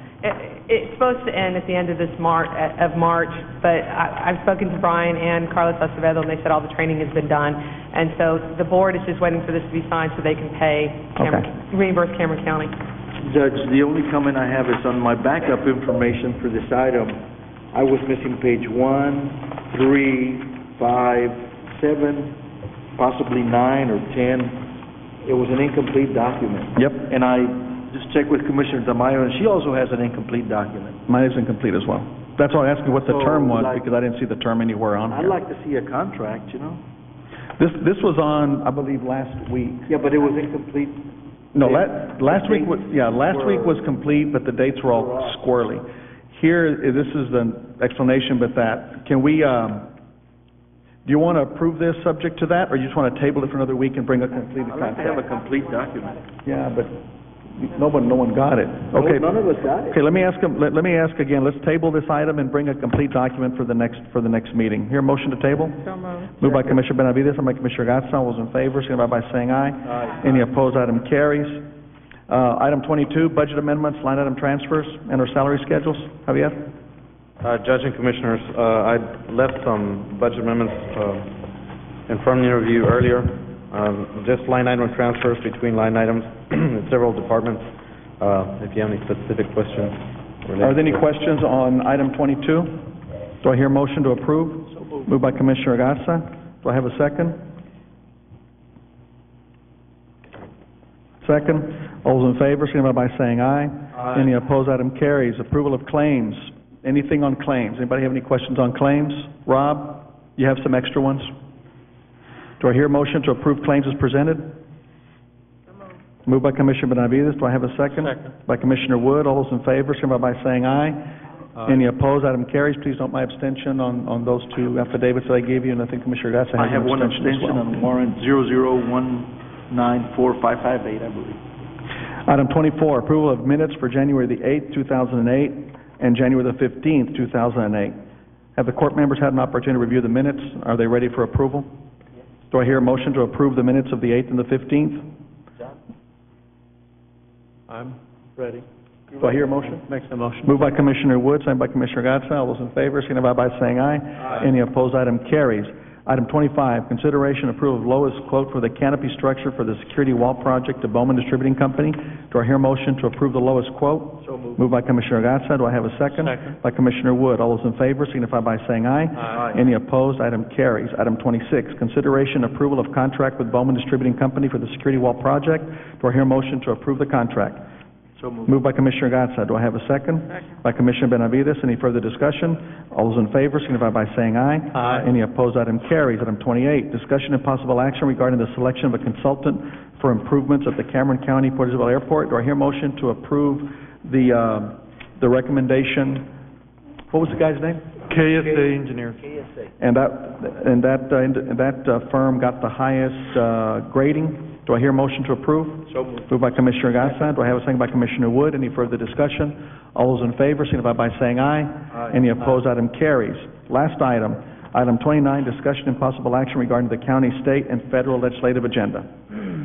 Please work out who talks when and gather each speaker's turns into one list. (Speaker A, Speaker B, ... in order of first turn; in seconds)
Speaker A: 0.2-12.7
Speaker B: 11.2-11.5, 26.8-27.1, 31.1-35.4, 37.6-39.9, 41.5-49.9, 51.0-55.2, 56.4-57.0, 57.5-59.3, 59.9-71.6, 72.3-76.7, 90.6-92.8, 93.4-97.4, 101.2-111.3, 112.6-114.6, 116.2-121.0, 121.6-127.8, 132.3-138.0, 138.6-141.7, 142.5-145.1, 149.2-149.8, 150.4-177.6, 178.5-196.3, 197.1-197.9, 199.8-219.1
Speaker C: 13.2-17.2, 17.7-22.4, 23.0-24.6, 25.2-31.0, 33.0-33.8, 35.1-36.8, 39.9-43.9, 44.9-45.4, 54.7-56.2, 58.9-60.0, 126.5-131.4, 164.2-164.6, 178.2-178.5, 198.2-199.7, 205.9-206.2
Speaker D: 77.4-81.3, 82.1-87.6, 88.2-91.0
Speaker E: 147.7-148.6, 149.9-150.6, 198.1-199.2